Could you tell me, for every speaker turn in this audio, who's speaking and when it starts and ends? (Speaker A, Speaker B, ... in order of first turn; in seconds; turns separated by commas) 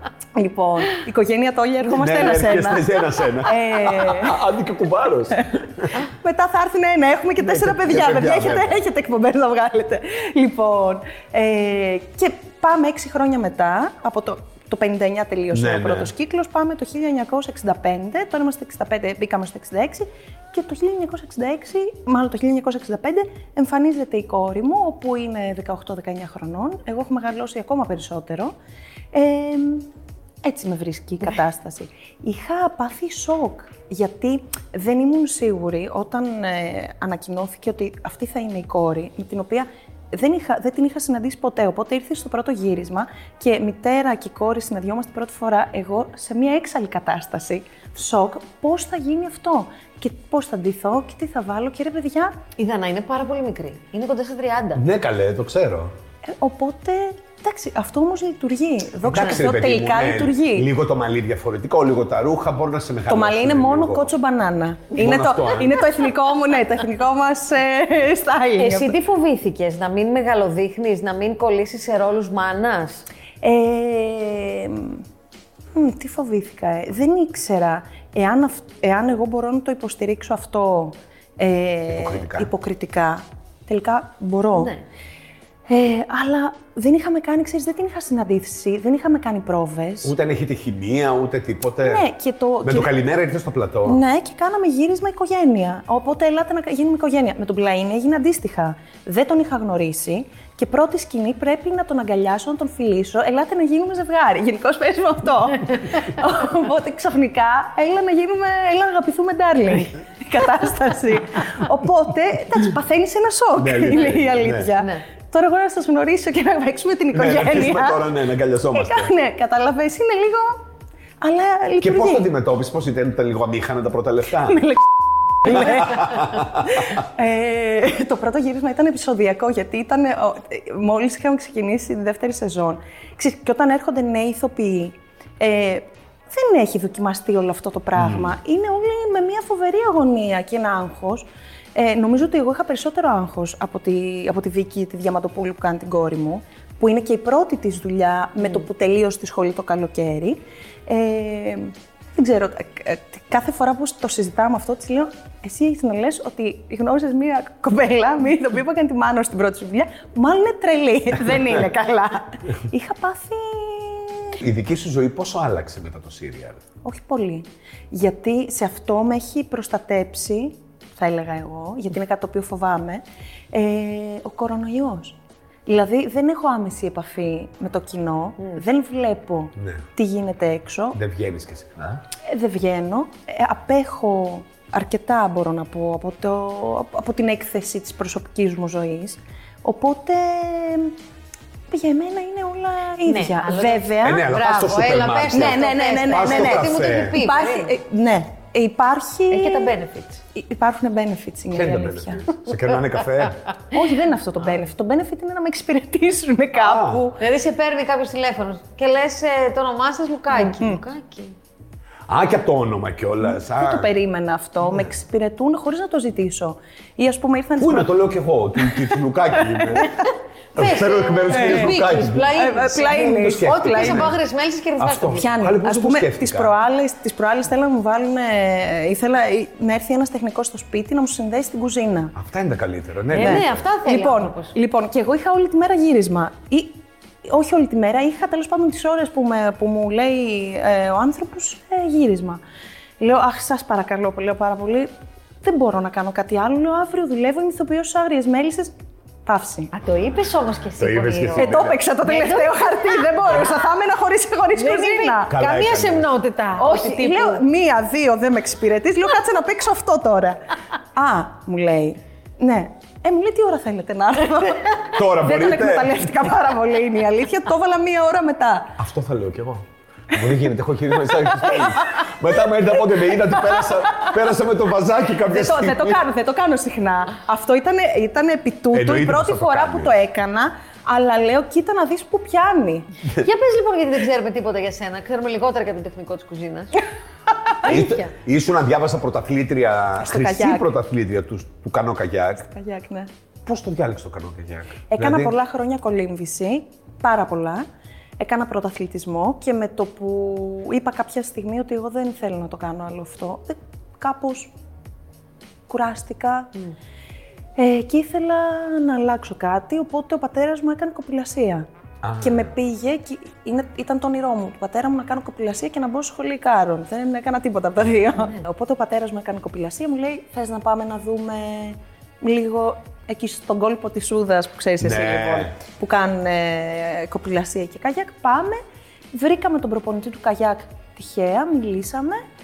Speaker A: 0.3-4.4, Speaker B: 1.9-6.0, Speaker A: 6.0-28.5, Speaker B: 7.4-8.8, Speaker B: 15.5-16.1, Speaker A: 29.1-29.9, Speaker A: 30.4-52.3, Speaker C: 52.6-54.8, Speaker B: 54.8-55.9, Speaker A: 56.3-60.7, Speaker B: 59.0-64.1, Speaker A: 63.1-69.0, Speaker B: 65.0-65.8, Speaker C: 68.6-73.0, Speaker A: 73.4-75.0, Speaker A: 75.7-84.7, Speaker B: 81.9-82.5, Speaker C: 84.5-84.8, Speaker A: 85.7-90.1, Speaker B: 90.0-92.0, Speaker A: 91.8-92.9, Speaker B: 92.6-94.0, Speaker A: 93.8-118.1, Speaker B: 113.6-114.7, Speaker C: 114.8-115.0, Speaker B: 117.1-119.1, Speaker A: 118.7-120.6, Speaker A: 121.2-122.3, Speaker B: 121.8-124.7, Speaker A: 124.4-164.4, Speaker B: 125.4-126.5, Speaker B: 138.0-138.3, Speaker B: 164.4-166.6, Speaker A: 166.8-181.0, Speaker B: 179.6-179.8, Speaker B: 180.9-182.0, Speaker A: 182.2-190.9, Speaker A: 191.7-194.3, Speaker C: 193.1-197.7, Speaker B: 194.1-197.2, Speaker A: 195.3-199.7, Speaker C: 199.3-200.2, Speaker A: 200.3-202.3, Speaker B: 201.5-203.5, Speaker A: 203.7-207.2, Speaker B: 206.6-207.1, Speaker C: 207.2-211.4, Speaker A: 210.3-210.8, Speaker B: 212.1-213.9, Speaker A: 213.2-217.9, Speaker B: 217.6-220.0, Speaker A: 218.6-220.0, Speaker B: 220.6-222.3, Speaker C: 220.6-225.3, Speaker A: 221.3-224.1, Speaker B: 222.9-224.2, Speaker B: 224.8-226.6, Speaker A: 225.2-232.1, Speaker B: 232.2-233.7, Speaker C: 233.1-234.6, Speaker A: 233.2-242.4, Speaker A: 243.0-244.9, Speaker A: 245.4-248.7, Speaker A: 249.3-249.7, Speaker C: 249.7-253.4, Speaker B: 250.8-251.8, Speaker A: 251.3-255.3, Speaker C: 254.5-257.4, Speaker B: 255.3-256.1, Speaker A: 256.6-260.4, Speaker A: 260.9-268.8, Speaker B: 265.0-266.1, Speaker B: 268.8-276.0, Speaker A: 271.2-272.0, Speaker A: 272.8-274.2, Speaker A: 275.3-282.9, Speaker B: 278.7-280.0, Speaker C: 283.2-286.8, Speaker B: 287.6-292.4, Speaker C: 287.7-288.0, Speaker A: 290.0-290.8, Speaker A: 292.4-293.1, Speaker B: 293.5-295.3, Speaker A: 294.9-297.6, Speaker A: 298.2-304.5, Speaker A: 305.7-306.5, Speaker A: 307.6-311.7, Speaker B: 312.0-312.5, Speaker A: 312.2-328.6, Speaker B: 324.8-325.5, Speaker A: 329.1-332.2